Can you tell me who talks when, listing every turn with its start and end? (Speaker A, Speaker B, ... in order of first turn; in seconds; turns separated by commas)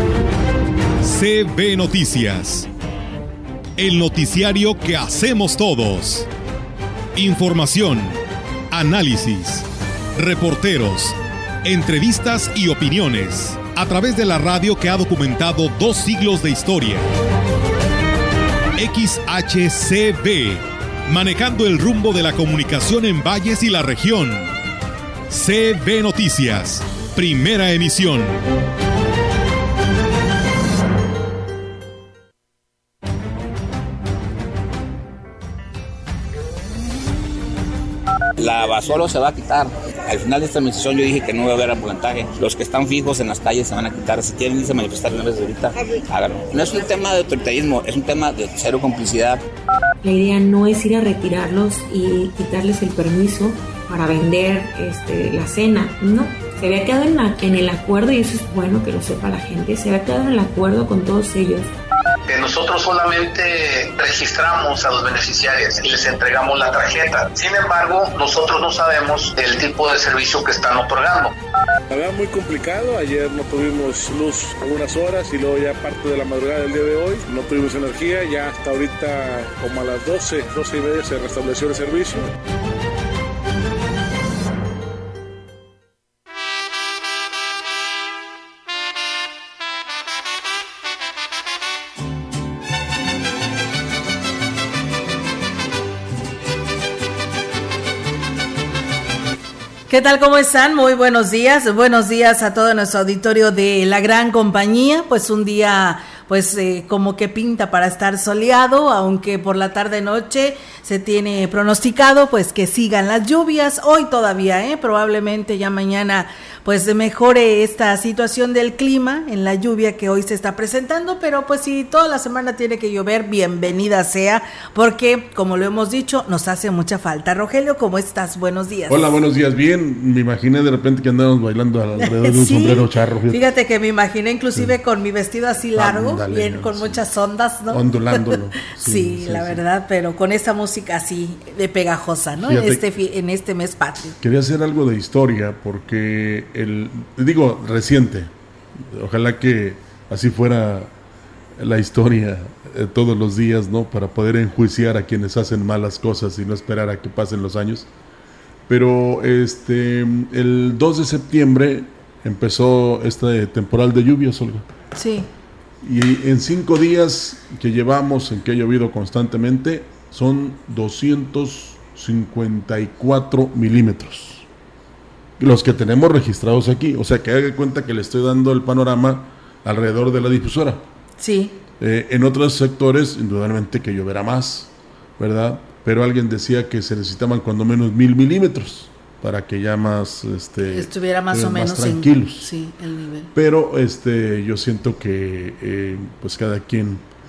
Speaker A: 1.0-2.7, Speaker A: 3.8-6.3, Speaker A: 7.2-17.1, Speaker A: 18.8-24.6, Speaker A: 25.3-28.4, Speaker B: 38.4-49.4, Speaker C: 50.0-61.7, Speaker D: 62.3-71.3, Speaker E: 71.9-82.3, Speaker F: 99.9-129.2, Speaker G: 128.9-133.4, Speaker F: 132.0-144.2, Speaker G: 135.8-137.0, Speaker G: 137.7-139.6, Speaker G: 142.4-142.8, Speaker G: 144.2-150.9, Speaker G: 151.6-157.9, Speaker G: 158.7-164.7, Speaker F: 165.0-165.3, Speaker G: 165.8-174.5, Speaker G: 175.4-180.8, Speaker F: 181.2-181.6, Speaker G: 181.8-192.5, Speaker F: 190.6-193.3, Speaker G: 193.3-197.1